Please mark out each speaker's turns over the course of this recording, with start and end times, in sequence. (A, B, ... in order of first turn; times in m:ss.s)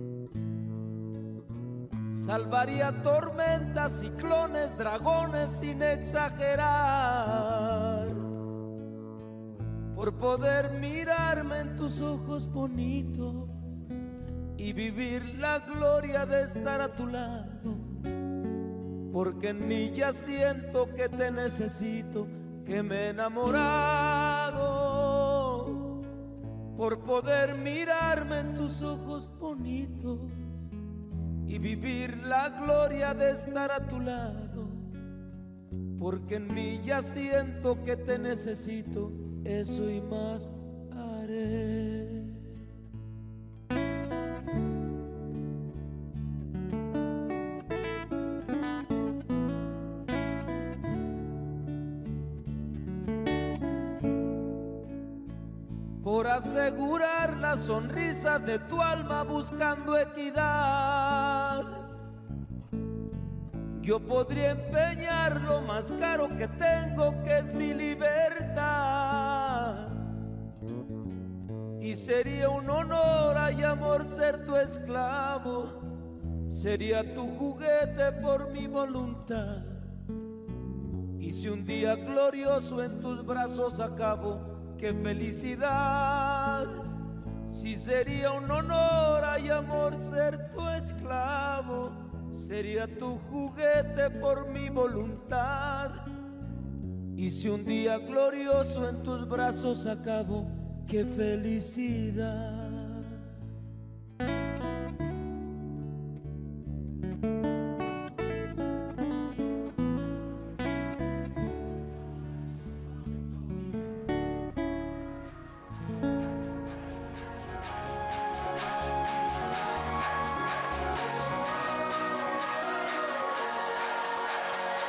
0:02.1-0:08.2 A
0:09.9-0:13.8 A
0:14.6-0:18.0 A
0:19.1-0:26.0 A
0:26.8-0:30.7 A
0:31.5-0:34.9 A
0:36.0-0:42.3 A
0:56.0-1:01.8 A
1:03.8-1:10.1 A
1:11.8-1:15.9 A
1:16.5-1:19.9 A
1:21.2-1:26.9 A
1:27.4-1:36.0 A
1:37.2-1:43.2 A